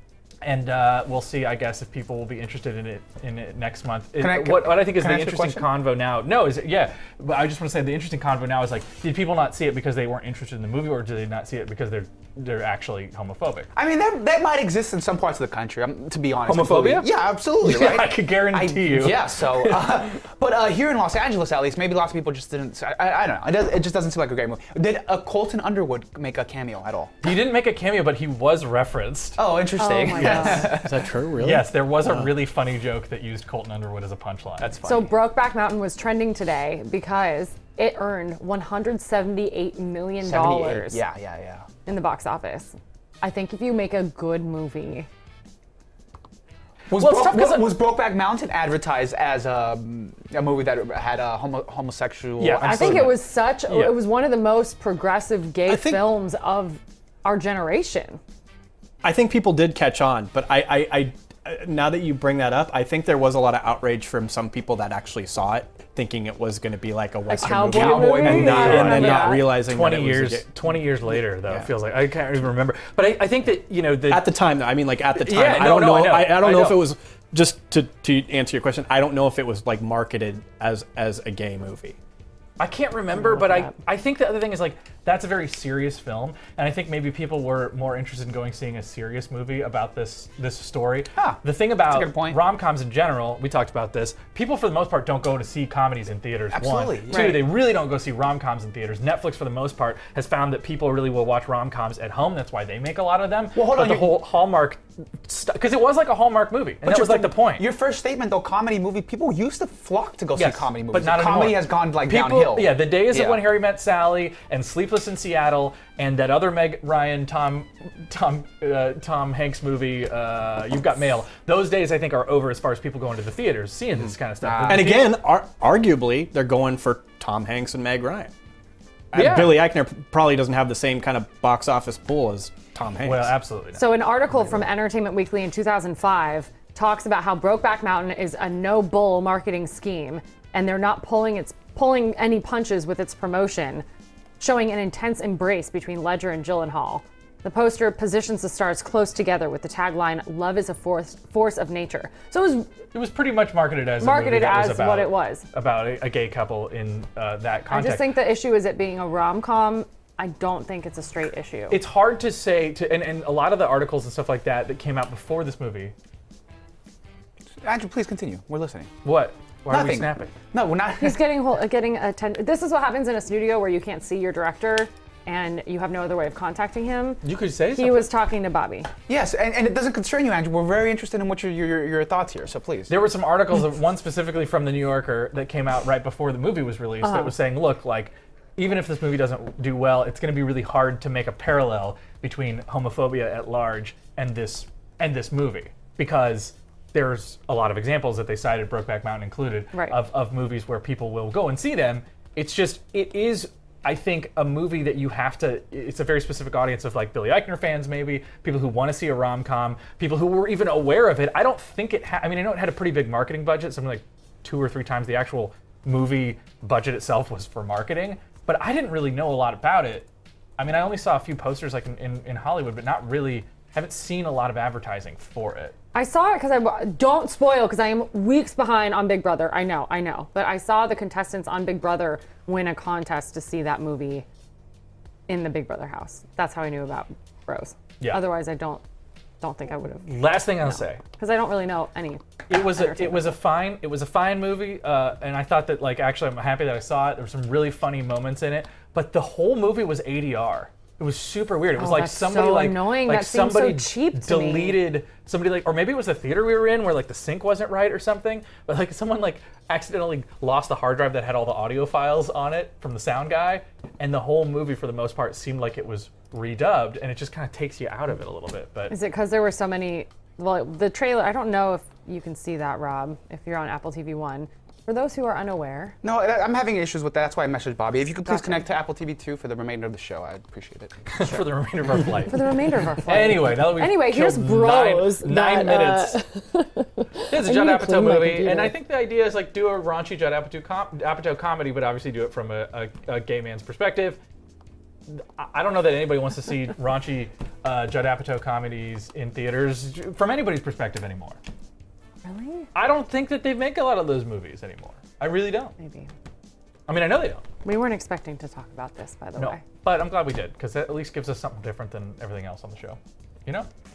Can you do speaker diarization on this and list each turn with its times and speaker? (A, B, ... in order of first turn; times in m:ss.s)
0:00.4-0:13.7 A
0:04.2-0:05.7 B
0:13.8-0:27.1 B
0:16.5-0:17.1 A
0:17.6-0:20.1 A
0:27.2-0:29.4 A
0:29.4-0:31.0 B
0:29.8-0:30.8 C
0:30.2-0:32.3 D
0:31.4-0:34.9 A
0:34.6-0:35.1 B
0:34.8-0:41.0 C
0:40.2-0:41.7 B
0:41.9-0:45.1 C
0:46.9-0:53.2 B
0:46.9-0:47.8 A
0:52.4-0:54.0 A
0:52.6-0:58.2 C
0:55.7-0:56.1 D
0:59.0-1:11.7 D
1:07.3-1:09.5 C
1:07.4-1:14.3 A
1:14.1-1:22.0 D
1:15.1-1:16.8 A
1:22.6-1:47.7 A
1:23.2-1:23.7 C
1:31.2-1:32.4 B
1:36.5-1:37.5 B
1:37.1-1:37.4 C
1:43.6-1:44.2 B
1:46.8-1:53.4 B
1:50.4-2:05.2 A
2:04.4-2:05.1 B
2:04.6-2:08.3 D
2:09.1-2:13.4 D
2:09.1-2:09.7 A
2:13.0-2:13.8 A
2:13.8-2:23.8 C
2:24.4-2:32.7 C
2:32.9-2:38.1 A
2:34.0-2:35.4 C
2:37.7-2:41.8 C
2:41.7-2:45.9 A
2:47.6-2:48.9 B
2:49.0-2:50.3 A
2:49.7-2:51.2 B
2:51.0-2:57.2 C
2:57.2-2:58.1 A
2:57.7-2:58.9 C
2:59.1-3:02.9 B
3:02.9-3:45.8 A
3:07.0-3:07.3 C
3:19.7-3:20.0 C
3:45.9-3:54.2 C
3:55.3-3:58.8 C
3:59.4-4:03.4 C
4:00.1-4:01.0 A
4:02.5-4:28.9 A
4:11.8-4:14.8 C
4:28.9-4:36.0 C
4:36.0-4:41.4 B
4:38.3-4:38.6 C
4:41.1-4:46.2 A
4:42.3-4:48.7 C
4:47.3-4:54.2 A
4:55.1-5:01.4 A
5:02.2-5:02.7 C
5:02.8-5:05.7 A
5:05.8-5:06.1 C
5:06.9-5:07.4 A
5:07.6-5:09.6 C
5:09.4-5:13.7 A